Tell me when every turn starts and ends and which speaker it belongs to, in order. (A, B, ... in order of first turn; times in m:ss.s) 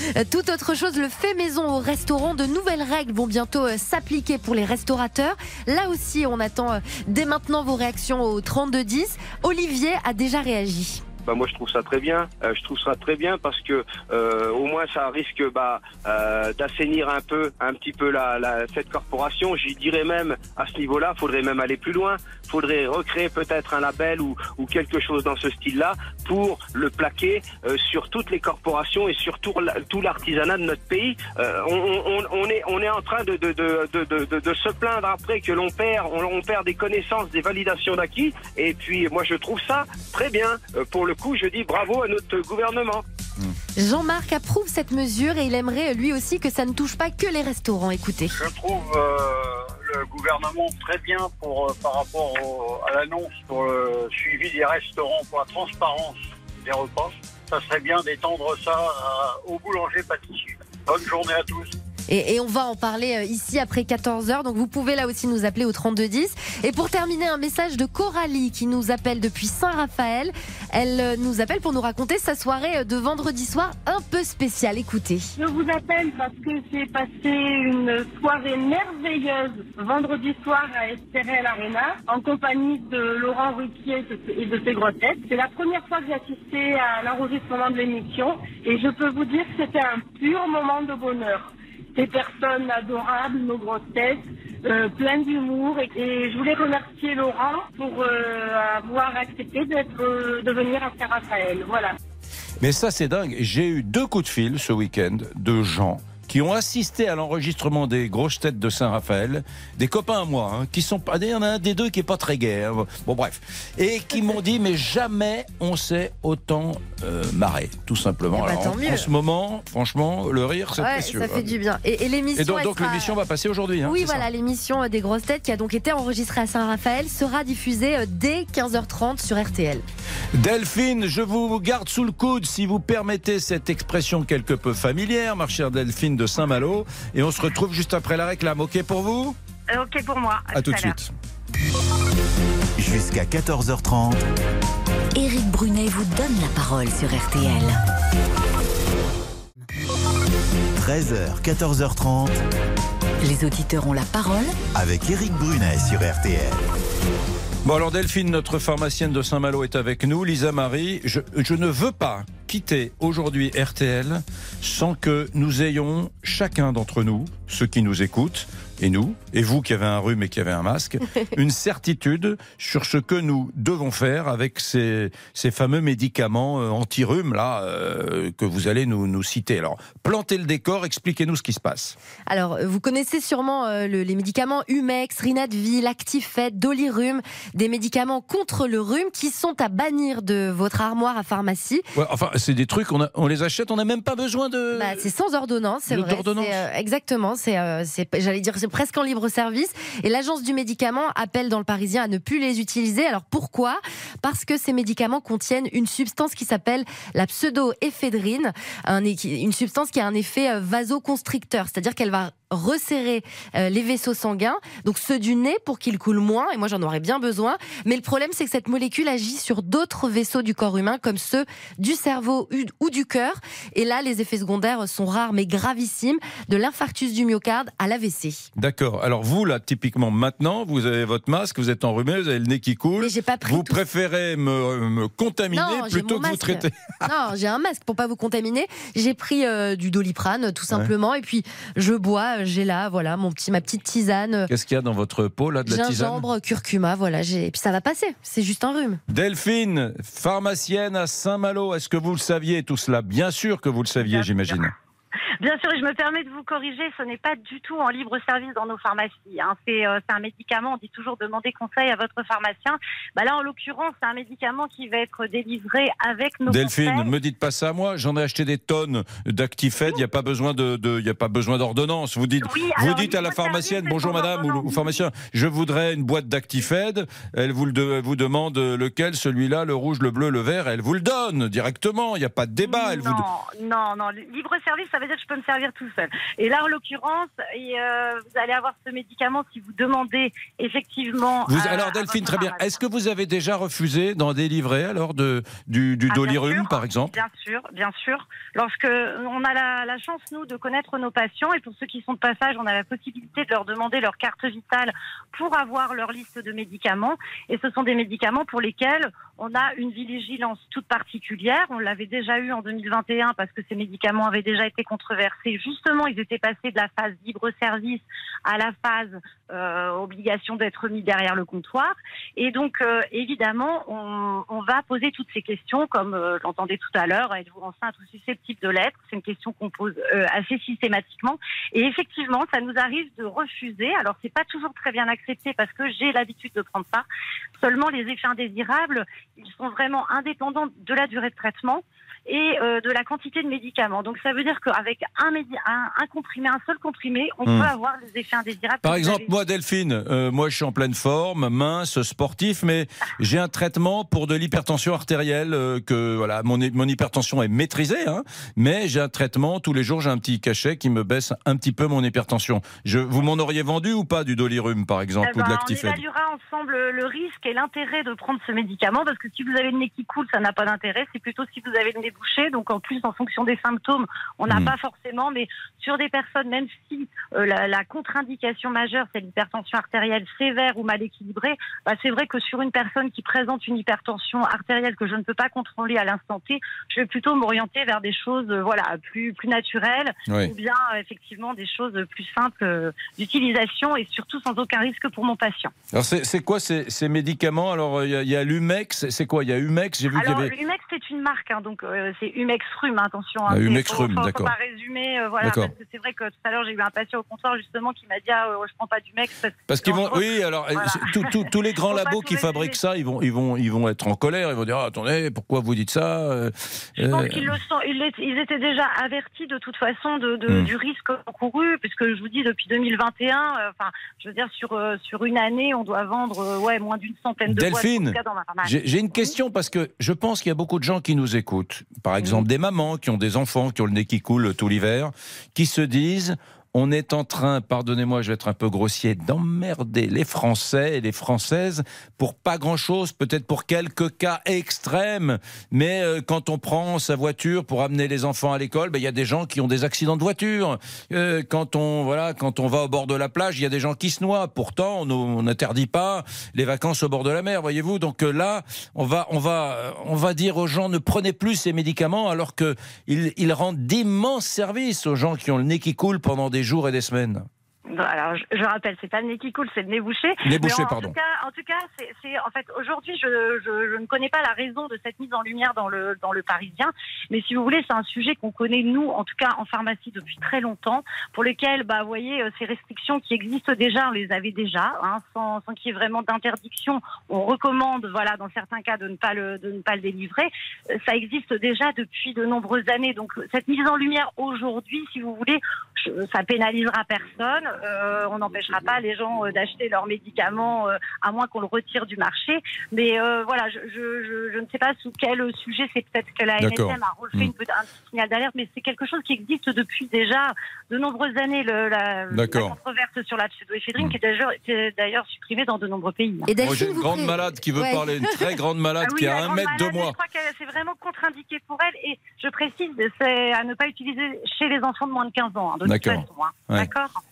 0:00.1-0:11.0 A
0:11.2-0:43.0 B
0:43.8-0:48.4 A
0:48.3-1:01.7 C
1:02.1-1:15.3 A
1:15.4-1:41.9 D
1:42.6-2:01.5 E
1:58.3-1:59.1 A
2:00.8-2:03.1 A
2:02.4-2:04.2 E
2:03.8-2:09.8 A
2:10.3-2:19.4 E
2:19.7-2:20.9 F
2:20.5-2:21.1 E
2:22.8-2:24.2 G
2:25.1-2:27.8 H
2:30.8-2:32.4 G
2:33.2-2:34.5 H
2:34.7-2:36.7 G
2:37.6-3:02.0 E
3:02.3-3:11.8 A
3:11.9-3:15.1 E
3:14.7-3:48.5 A
3:15.9-3:16.6 E
3:48.6-3:57.1 E
3:53.0-3:53.8 A
3:55.5-4:04.5 A
4:04.5-4:06.2 E
4:05.6-4:09.0 A
4:09.1-4:14.7 E
4:14.0-4:14.6 F
4:15.4-4:27.1 F
4:26.5-4:43.2 E
4:32.4-4:35.0 F
4:42.6-4:52.7 F
4:51.4-4:57.2 E
4:56.1-5:37.0 F
5:37.6-5:49.3 F
5:47.4-5:47.7 E
5:48.8-6:06.0 E
6:05.2-6:35.7 F
6:14.5-6:14.7 E
6:30.3-6:30.5 E
6:35.9-6:40.5 E
6:40.1-6:52.8 F
6:43.5-6:44.5 E
6:45.4-6:45.7 E
6:49.7-6:57.6 E
6:57.0-7:09.3 F
7:07.5-7:47.5 E
7:47.9-8:36.5 F
7:50.4-7:51.1 E
8:26.6-8:27.5 E
8:32.3-8:32.8 E
8:36.4-8:38.4 A
8:36.6-8:40.2 E
8:39.0-8:47.2 F
8:45.8-8:46.9 E